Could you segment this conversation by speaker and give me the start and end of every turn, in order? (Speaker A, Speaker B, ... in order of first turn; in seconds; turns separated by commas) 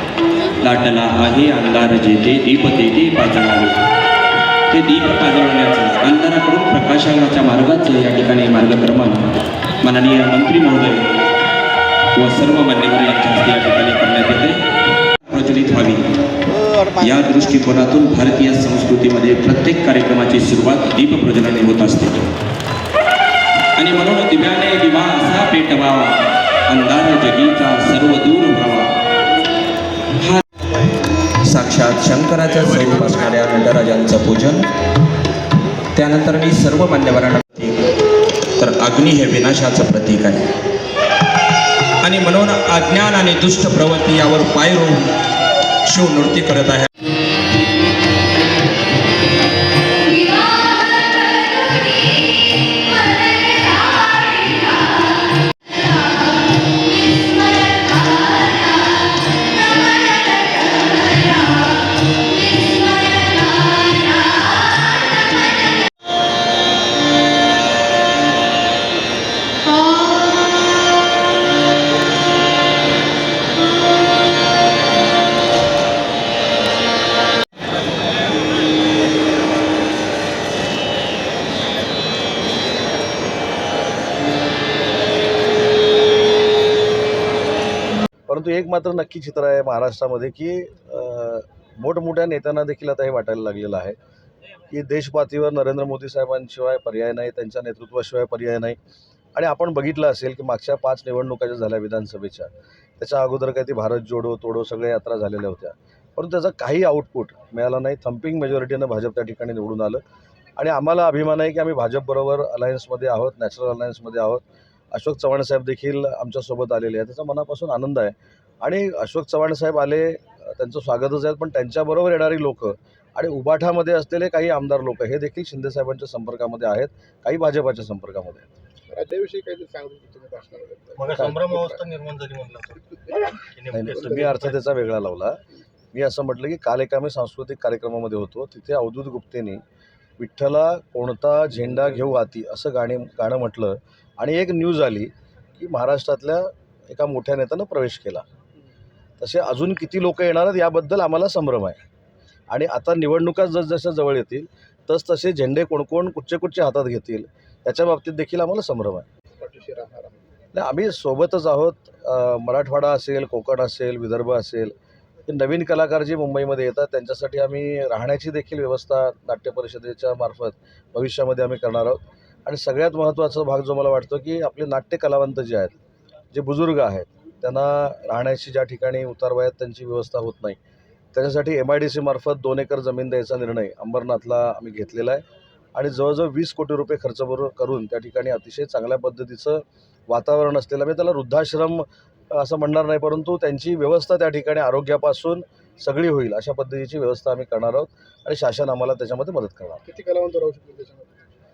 Speaker A: 0.6-3.8, Speaker A: 4.7-9.3, Speaker A: 9.8-11.1, Speaker A: 12.1-14.6, Speaker A: 15.3-16.0, Speaker A: 16.9-22.3, Speaker A: 23.7-28.9, Speaker A: 30.2-30.4, Speaker A: 31.4-34.7, Speaker A: 35.9-37.8, Speaker A: 38.6-40.4, Speaker A: 42.0-45.0, Speaker A: 45.9-46.9, Speaker A: 50.2-50.5, Speaker A: 53.5-54.5, Speaker A: 57.2-58.4, Speaker A: 60.0-61.4, Speaker A: 62.5-64.3, Speaker B: 88.3-94.0, Speaker B: 94.7-98.8, Speaker B: 99.3-110.0, Speaker B: 110.6-114.4, Speaker B: 114.9-128.5, Speaker C: 128.9-131.8, Speaker D: 131.0-132.8, Speaker C: 132.9-133.4, Speaker D: 133.6-134.1, Speaker B: 133.7-135.4, Speaker C: 133.9-134.3, Speaker B: 135.9-139.6, Speaker B: 140.2-148.2, Speaker B: 149.2-151.8, Speaker B: 152.5-159.1, Speaker C: 159.4-160.2, Speaker B: 160.5-164.7, Speaker B: 165.3-175.7, Speaker B: 176.3-180.6, Speaker B: 181.1-185.2, Speaker B: 185.7-199.8, Speaker C: 199.8-201.1